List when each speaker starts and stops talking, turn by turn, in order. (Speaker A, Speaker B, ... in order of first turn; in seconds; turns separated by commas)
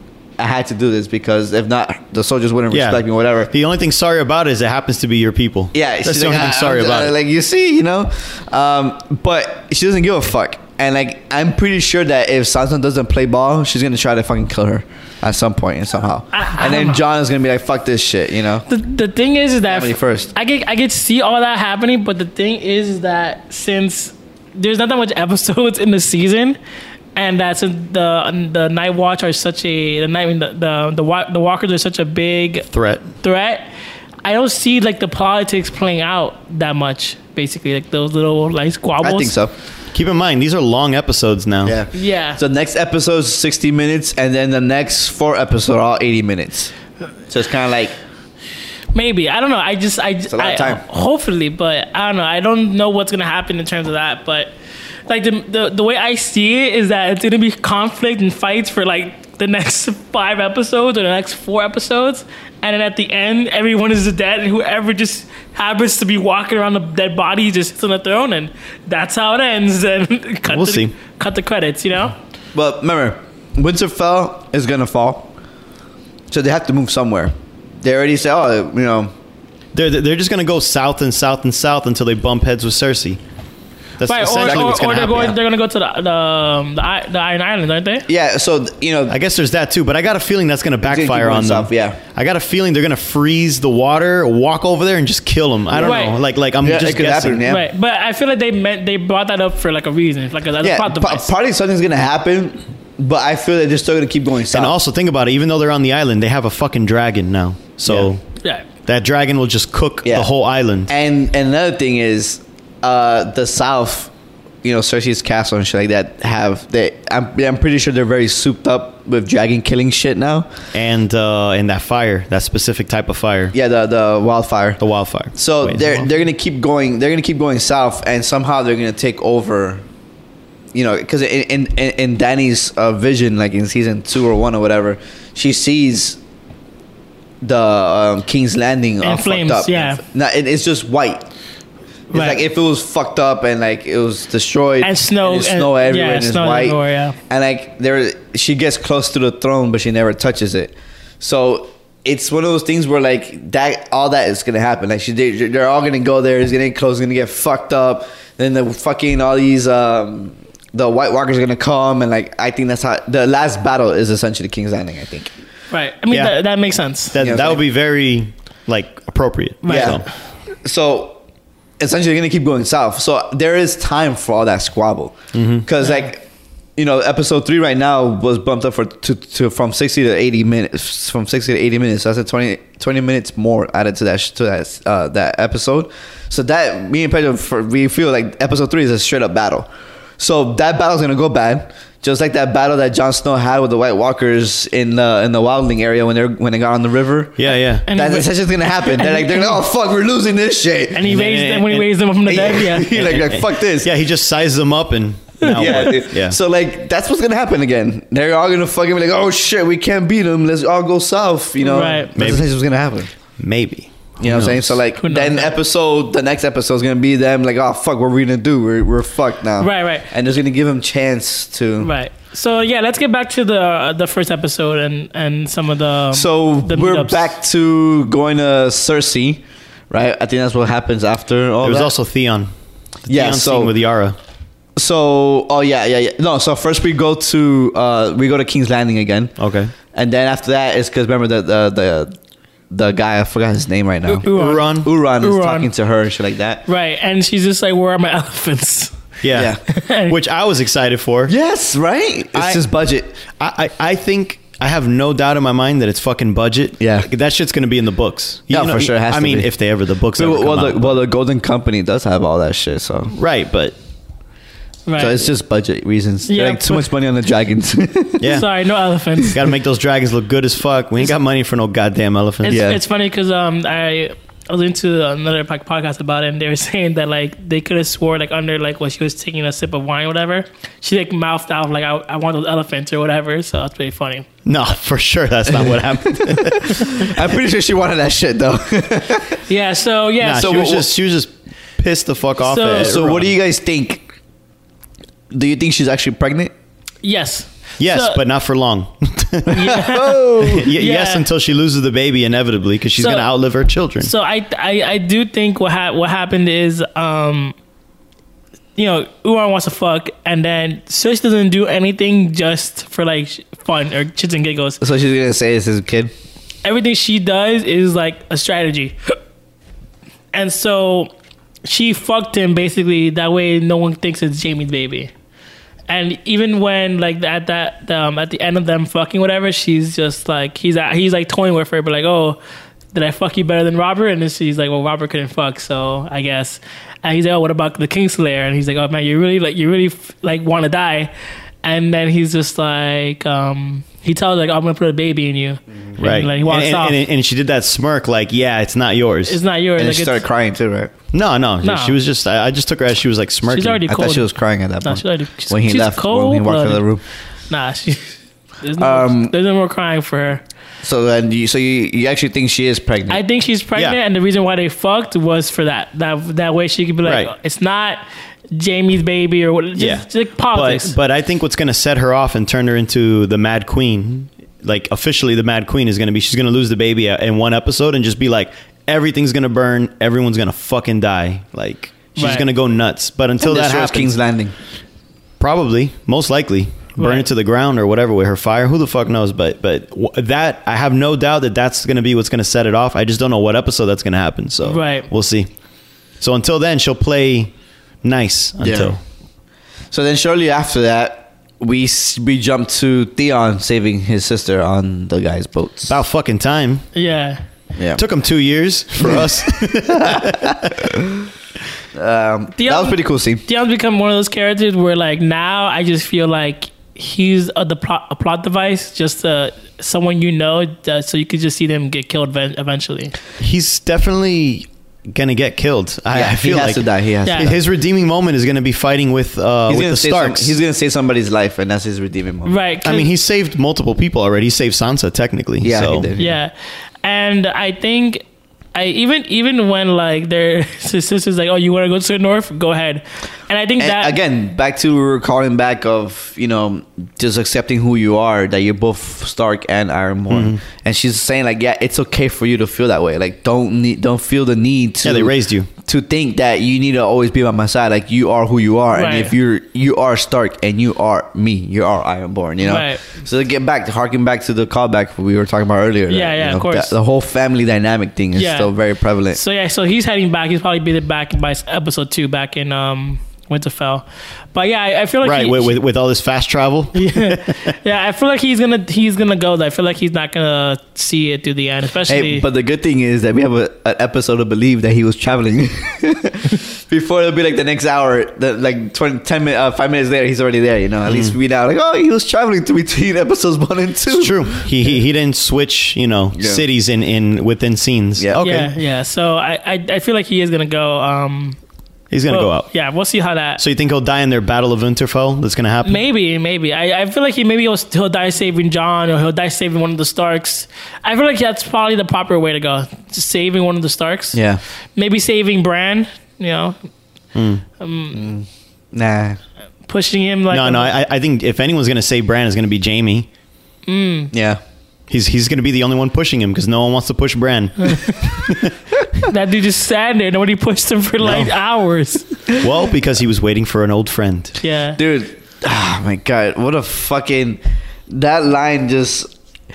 Speaker A: 0.4-3.5, Speaker B: 2.7-7.1, Speaker A: 5.7-18.6, Speaker C: 16.3-17.0, Speaker C: 18.7-26.6, Speaker A: 19.7-20.3, Speaker C: 27.1-32.7, Speaker B: 32.7-33.0, Speaker C: 33.2-33.6, Speaker C: 34.2-39.3, Speaker A: 39.0-39.5, Speaker B: 39.9-41.8, Speaker A: 41.6-46.7, Speaker C: 41.9-42.4, Speaker A: 47.3-47.9, Speaker C: 48.9-54.5, Speaker A: 50.3-50.8, Speaker C: 55.1-72.1, Speaker B: 70.5-70.9, Speaker A: 72.5-75.3, Speaker A: 76.3-79.1, Speaker B: 79.7-83.2, Speaker B: 84.0-85.4, Speaker C: 84.0-88.0, Speaker A: 84.4-84.8, Speaker A: 88.1-89.2, Speaker B: 89.1-97.4, Speaker A: 90.8-92.0, Speaker A: 95.7-96.1, Speaker C: 95.8-96.2, Speaker A: 96.6-97.7, Speaker C: 97.5-101.3, Speaker A: 100.6-104.7, Speaker B: 104.5-108.2, Speaker B: 108.8-110.9, Speaker A: 110.0-110.3, Speaker A: 110.9-114.1, Speaker A: 114.6-120.5, Speaker B: 120.7-123.5, Speaker A: 123.5-124.8, Speaker B: 124.8-126.1, Speaker A: 125.3-129.8, Speaker A: 130.7-136.2, Speaker A: 137.4-141.2, Speaker C: 139.0-140.0, Speaker A: 142.1-165.3, Speaker C: 142.1-142.4, Speaker C: 144.8-147.2, Speaker C: 165.7-167.1, Speaker B: 166.1-166.3, Speaker B: 167.1-170.0, Speaker A: 167.2-167.6, Speaker C: 169.6-170.0, Speaker A: 169.7-170.0, Speaker A: 170.6-171.2, Speaker A: 171.8-176.2, Speaker B: 175.3-175.7, Speaker A: 176.8-189.7, Speaker A: 190.2-201.2, Speaker B: 197.4-197.8, Speaker C: 197.9-198.3, Speaker C: 198.8-199.6, Speaker C: 200.9-203.0, Speaker B: 201.0-201.9, Speaker A: 202.3-203.9, Speaker B: 202.9-206.4, Speaker C: 205.4-205.8, Speaker A: 205.4-213.1, Speaker C: 211.6-212.1, Speaker B: 212.1-212.4, Speaker B: 213.4-214.8, Speaker A: 214.2-221.9, Speaker C: 215.0-215.5, Speaker C: 219.6-220.1, Speaker C: 221.8-227.3, Speaker A: 226.1-231.9, Speaker B: 231.6-232.5, Speaker B: 233.1-234.2, Speaker A: 233.1-233.7, Speaker A: 234.8-239.3, Speaker B: 239.4-239.7, Speaker A: 239.9-242.2, Speaker A: 242.7-246.6, Speaker C: 244.1-245.7, Speaker B: 244.3-244.9, Speaker C: 246.7-249.0, Speaker B: 249.2-251.3, Speaker A: 249.3-249.6, Speaker C: 249.7-250.2, Speaker A: 251.3-253.2, Speaker B: 252.3-252.6, Speaker B: 253.3-261.0, Speaker A: 256.8-257.1, Speaker A: 258.5-259.5, Speaker A: 260.1-263.1, Speaker B: 263.1-263.7, Speaker C: 264.9-265.2, Speaker A: 265.0-268.3, Speaker C: 266.3-266.9, Speaker B: 268.2-268.5, Speaker C: 268.2-269.4, Speaker B: 269.3-272.6, Speaker C: 272.4-284.3, Speaker A: 272.5-272.8, Speaker B: 284.4-287.2, Speaker A: 285.5-289.4, Speaker C: 289.5-290.8, Speaker B: 290.2-293.3, Speaker A: 290.3-290.9, Speaker C: 292.4-292.9, Speaker A: 292.7-294.0, Speaker A: 295.3-296.5, Speaker C: 297.0-298.2, Speaker B: 297.8-299.9, Speaker A: 299.5-300.7, Speaker C: 299.5-301.2, Speaker B: 300.4-304.1, Speaker C: 303.0-303.3, Speaker C: 304.0-307.5, Speaker C: 308.8-314.8, Speaker A: 314.8-316.1, Speaker C: 316.6-318.9, Speaker C: 320.3-321.1, Speaker C: 321.6-325.1, Speaker C: 325.9-332.4, Speaker C: 332.9-341.1, Speaker C: 341.6-347.0, Speaker B: 346.0-349.4, Speaker C: 349.3-350.2, Speaker A: 349.8-350.9, Speaker B: 351.1-353.9, Speaker C: 351.6-351.9, Speaker C: 353.5-354.3, Speaker A: 353.9-357.0, Speaker C: 354.8-356.8, Speaker C: 357.5-360.4, Speaker A: 358.8-359.3, Speaker A: 360.8-363.2, Speaker C: 363.1-368.0, Speaker B: 367.0-367.3, Speaker C: 368.5-370.9, Speaker B: 369.8-384.1, Speaker C: 382.1-382.4, Speaker A: 383.4-384.5, Speaker B: 385.4-395.5, Speaker C: 387.0-387.3, Speaker C: 394.6-395.1, Speaker B: 396.2-397.5, Speaker B: 398.0-399.0, Speaker A: 398.6-398.9, Speaker A: 399.9-405.9, Speaker B: 405.9-406.8, Speaker C: 406.9-407.4, Speaker A: 407.8-408.0, Speaker B: 408.0-410.9, Speaker A: 409.0-409.3, Speaker A: 409.9-411.3, Speaker A: 411.9-413.4, Speaker C: 412.6-423.1, Speaker B: 423.4-430.6, Speaker A: 426.1-427.5, Speaker C: 427.2-427.5, Speaker A: 429.7-432.6, Speaker C: 432.4-433.1, Speaker B: 432.8-436.1, Speaker A: 435.6-436.4, Speaker C: 436.2-436.5, Speaker C: 437.0-438.2, Speaker C: 438.7-444.2, Speaker A: 443.8-469.4, Speaker B: 450.3-450.6, Speaker B: 455.0-455.7, Speaker C: 458.9-459.3, Speaker C: 462.6-463.0, Speaker C: 466.1-466.9, Speaker C: 468.4-468.7, Speaker C: 469.3-475.8, Speaker B: 475.2-477.7, Speaker C: 476.9-482.4, Speaker A: 482.1-494.7, Speaker B: 491.1-491.3, Speaker B: 494.1-498.7, Speaker A: 496.3-496.6, Speaker A: 498.2-498.5, Speaker C: 498.4-501.6, Speaker B: 502.1-502.7, Speaker C: 502.3-503.6, Speaker B: 503.6-506.0, Speaker C: 505.8-514.4, Speaker A: 514.3-514.6, Speaker C: 515.0-516.8, Speaker B: 517.3-517.6, Speaker C: 517.8-518.3, Speaker A: 518.1-519.4, Speaker C: 519.9-520.9, Speaker B: 520.5-523.3, Speaker C: 523.9-524.3, Speaker A: 524.3-524.6, Speaker B: 525.1-528.7, Speaker C: 527.8-528.2, Speaker C: 529.2-532.4, Speaker B: 531.2-531.5, Speaker B: 532.6-534.6, Speaker C: 534.6-535.0, Speaker A: 535.0-537.6, Speaker A: 538.1-539.3